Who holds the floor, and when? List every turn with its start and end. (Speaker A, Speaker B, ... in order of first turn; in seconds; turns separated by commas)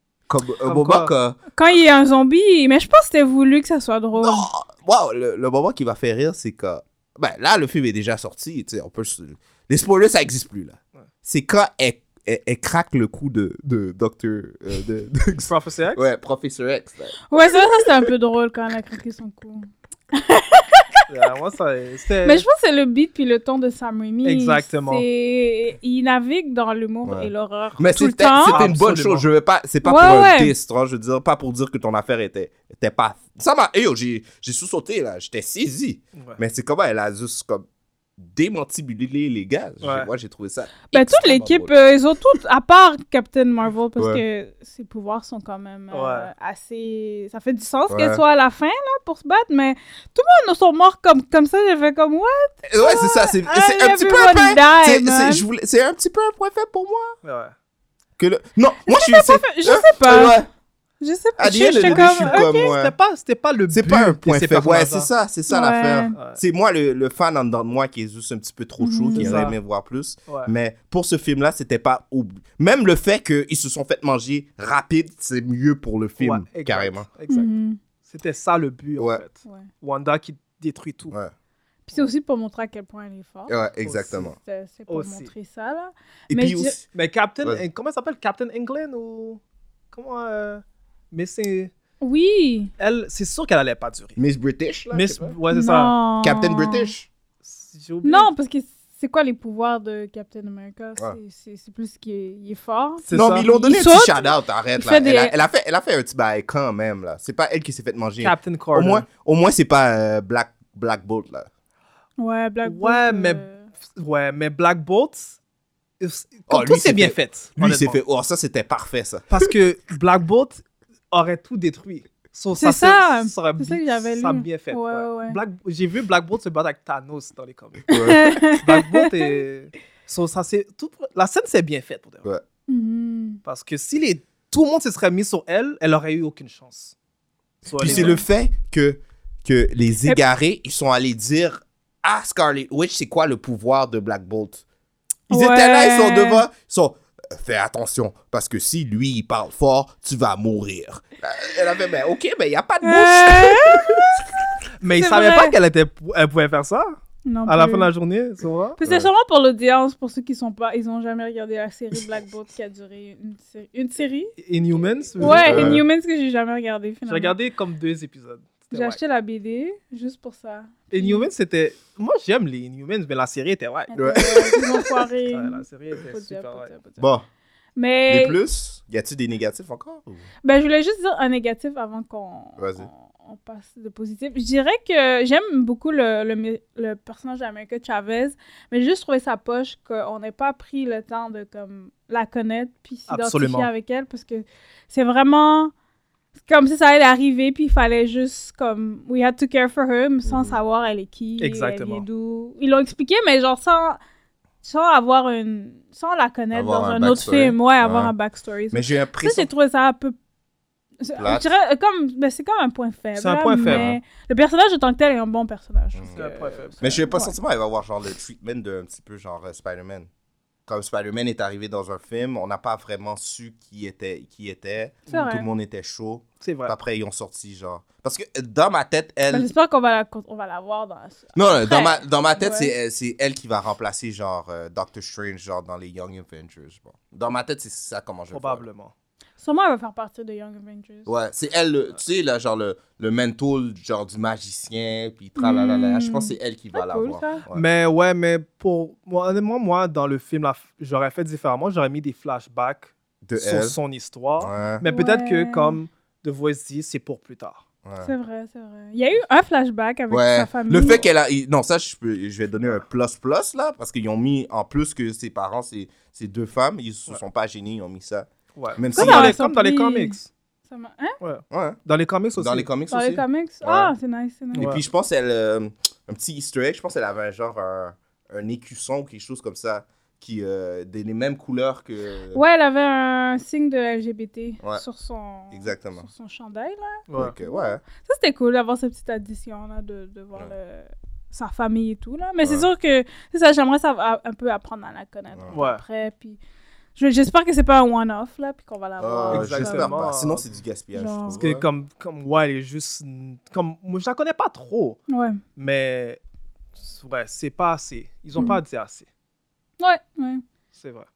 Speaker A: 0.3-1.4, Speaker B: 0.6-1.1, Speaker C: 1.6-4.5, Speaker A: 4.2-17.2, Speaker B: 15.5-16.1, Speaker C: 17.3-21.1, Speaker A: 17.8-18.1, Speaker B: 21.1-22.5, Speaker C: 22.2-28.6, Speaker B: 24.2-25.1, Speaker A: 27.0-41.8, Speaker B: 28.4-29.3, Speaker C: 29.8-30.5, Speaker B: 39.8-40.1, Speaker C: 40.9-55.5, Speaker A: 44.0-44.2, Speaker B: 45.9-46.3, Speaker A: 47.9-48.2, Speaker A: 52.6-57.2, Speaker B: 57.2-57.5, Speaker A: 58.2-60.5, Speaker C: 58.9-60.4, Speaker C: 61.0-62.7, Speaker A: 61.4-63.0, Speaker B: 61.8-65.1, Speaker A: 63.7-77.1, Speaker C: 65.5-66.2, Speaker B: 66.2-66.4, Speaker C: 68.8-69.3, Speaker B: 69.2-69.6, Speaker B: 76.2-77.5, Speaker C: 77.3-77.8, Speaker B: 78.0-81.2, Speaker C: 81.9-83.6, Speaker A: 83.5-84.4, Speaker B: 83.8-84.3, Speaker C: 84.4-86.8, Speaker B: 84.9-85.3, Speaker A: 86.3-86.9, Speaker B: 86.9-89.4, Speaker B: 89.9-91.7, Speaker C: 92.0-92.7, Speaker B: 92.8-94.2, Speaker A: 94.2-95.4, Speaker B: 94.9-96.0, Speaker C: 95.5-96.9, Speaker A: 96.2-97.1, Speaker B: 97.4-98.3, Speaker C: 98.0-105.3, Speaker B: 103.1-103.5, Speaker A: 103.1-111.5, Speaker B: 108.2-109.0, Speaker C: 112.2-113.7, Speaker B: 112.7-115.4, Speaker B: 116.0-118.0, Speaker A: 116.5-119.5, Speaker B: 119.3-127.9, Speaker C: 122.6-125.4, Speaker A: 127.9-128.4, Speaker C: 127.9-129.3, Speaker B: 128.5-132.2, Speaker C: 132.7-133.4, Speaker B: 133.4-136.9, Speaker B: 137.7-138.2, Speaker A: 137.8-144.6, Speaker C: 137.8-138.2, Speaker C: 145.3-146.4, Speaker A: 145.3-154.2, Speaker C: 152.8-153.9, Speaker B: 154.8-158.8, Speaker C: 155.0-155.6, Speaker C: 157.3-157.9, Speaker C: 158.8-164.3, Speaker A: 158.8-159.1, Speaker B: 164.4-165.8, Speaker C: 165.2-167.3, Speaker A: 165.2-165.8, Speaker B: 167.1-169.0, Speaker C: 168.7-171.3, Speaker B: 170.9-173.9, Speaker C: 173.9-177.1, Speaker A: 173.9-174.7, Speaker B: 175.3-176.7, Speaker A: 177.0-177.3, Speaker C: 177.8-178.4, Speaker A: 178.1-180.2, Speaker C: 180.4-195.7, Speaker A: 182.6-182.9, Speaker B: 193.1-193.7, Speaker C: 196.4-204.0, Speaker A: 200.2-200.6, Speaker B: 201.4-202.1, Speaker C: 204.6-210.2, Speaker A: 206.5-208.1, Speaker A: 208.7-209.5, Speaker C: 211.0-217.3, Speaker A: 211.2-211.5, Speaker B: 213.2-213.9, Speaker A: 213.7-214.0, Speaker A: 215.9-216.2, Speaker B: 216.1-217.0, Speaker A: 216.8-220.1, Speaker A: 220.7-229.5, Speaker C: 225.1-225.5, Speaker B: 226.4-226.8, Speaker C: 229.3-232.7, Speaker A: 231.3-238.7, Speaker B: 238.3-238.9, Speaker C: 239.4-241.1, Speaker A: 241.1-247.7, Speaker C: 245.4-247.4, Speaker B: 247.5-257.6, Speaker A: 253.2-253.8, Speaker A: 254.4-254.8, Speaker C: 254.9-255.8, Speaker A: 257.9-258.1, Speaker C: 258.0-261.1, Speaker A: 260.1-269.4, Speaker B: 268.6-270.3, Speaker C: 268.9-270.2, Speaker C: 270.7-271.2, Speaker B: 271.2-272.7, Speaker A: 271.5-271.8, Speaker A: 272.4-273.9, Speaker C: 272.9-274.7, Speaker A: 274.6-282.4, Speaker B: 274.6-274.8, Speaker C: 282.3-296.4, Speaker A: 285.5-286.1, Speaker B: 287.1-287.4, Speaker A: 287.1-287.8, Speaker A: 292.4-292.7, Speaker B: 295.5-295.8, Speaker C: 297.0-300.0, Speaker A: 299.0-301.6, Speaker B: 299.3-300.5, Speaker C: 300.9-301.4, Speaker B: 301.3-305.0, Speaker C: 305.1-305.4, Speaker B: 305.6-306.2, Speaker B: 306.8-309.1, Speaker C: 308.4-308.6, Speaker C: 309.8-310.4, Speaker B: 310.7-311.1